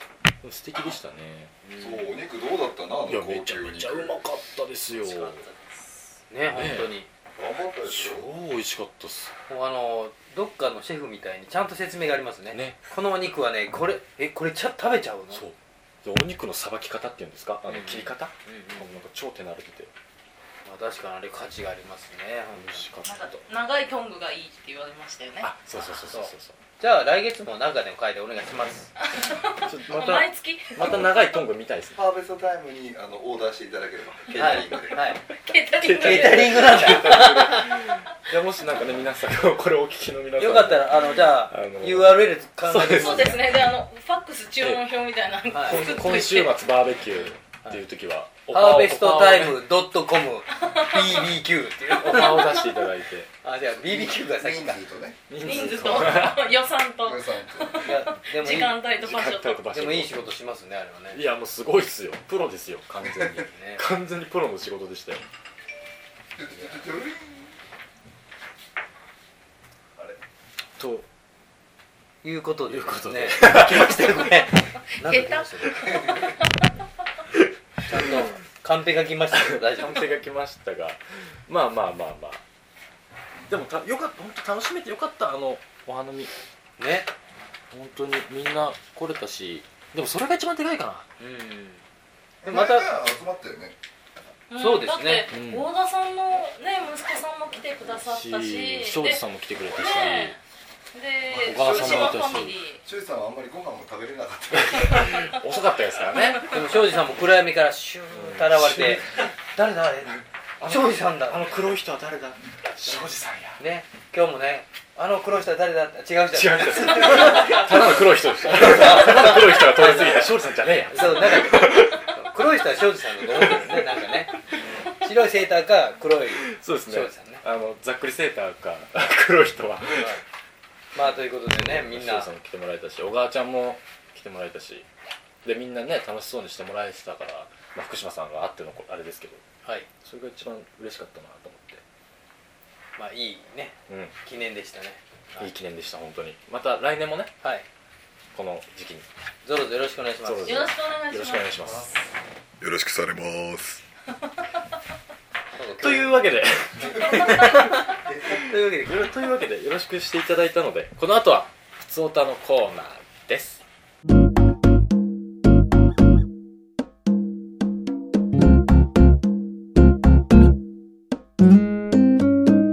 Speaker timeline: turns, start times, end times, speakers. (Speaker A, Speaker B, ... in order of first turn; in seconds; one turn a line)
Speaker A: 0.4-1.5
Speaker B: 1.6-2.2
Speaker C: 1.8-4.2
Speaker A: 3.1-5.4
Speaker B: 5.0-5.5
Speaker B: 6.3-7.1
Speaker A: 6.5-6.9
Speaker C: 7.3-8.3
Speaker A: 7.8-9.3
Speaker B: 9.5-15.4
Speaker A: 12.5-12.8
Speaker A: 15.3-19.9
Speaker B: 17.7-19.0
Speaker B: 20.6-22.9
Speaker A: 22.5-23.4
Speaker D: 23.0-26.0
Speaker A: 25.4-26.6
Speaker B: 26.1-28.9
Speaker D: 29.1-31.4
Speaker A: 29.6-32.0
Speaker C: 31.9-35.0
Speaker B: 34.3-35.2
Speaker D: 35.4-37.6
Speaker A: 35.8-43.4
Speaker B: 36.0-37.8
Speaker B: 40.4-43.6
Speaker D: 43.0-46.5
Speaker B: 45.5-45.9
Speaker A: 45.6-49.6
Speaker B: 48.5-52.6
Speaker D: 50.6-51.2
Speaker A: 51.9-53.3
Speaker D: 52.2-52.6
Speaker B: 53.4-54.8
Speaker C: 53.8-56.2
Speaker A: 55.3-56.5
Speaker D: 55.4-59.6
Speaker C: 57.0-58.0
Speaker B: 57.8-58.8
Speaker A: 59.0-60.1
Speaker B: 59.7-61.2
Speaker A: 61.1-65.2
Speaker B: 63.3-63.8
Speaker C: 66.3-67.5
Speaker A: 70.8-71.0
Speaker B: 72.2-76.2
Speaker A: 72.7-74.3
Speaker D: 75.0-76.3
Speaker B: 77.8-80.1
Speaker A: 77.9-78.3
Speaker A: 79.3-82.4
Speaker A: 83.5-86.3
Speaker B: 86.8-87.1
Speaker A: 87.7-91.0
Speaker B: 91.2-91.8
Speaker C: 92.4-93.7
Speaker B: 92.4-92.9
Speaker D: 94.5-100.4
Speaker B: 94.5-95.3
Speaker A: 95.3-95.7
Speaker A: 98.0-100.4
Speaker D: 100.9-102.8
Speaker A: 101.3-102.6
Speaker C: 101.3-105.3
Speaker A: 104.5-106.5
Speaker B: 106.5-111.5
Speaker A: 108.1-109.2
Speaker A: 110.6-113.6
Speaker B: 113.6-120.3
Speaker A: 116.3-122.2
Speaker D: 117.3-117.6
Speaker B: 120.9-127.4
Speaker A: 123.4-123.8
Speaker A: 126.4-130.2
Speaker B: 129.9-130.2
Speaker B: 130.9-132.3
Speaker A: 131.5-134.8
Speaker A: 135.4-139.4
Speaker A: 140.0-141.8
Speaker B: 142.9-145.5
Speaker A: 143.9-144.1
Speaker A: 145.4-147.3
Speaker A: 148.3-149.1
Speaker B: 149.4-150.7
Speaker A: 150.2-151.9
Speaker D: 150.4-151.9
Speaker C: 152.6-153.8
Speaker B: 155.6-159.2
Speaker A: 155.8-157.7
Speaker A: 158.8-163.6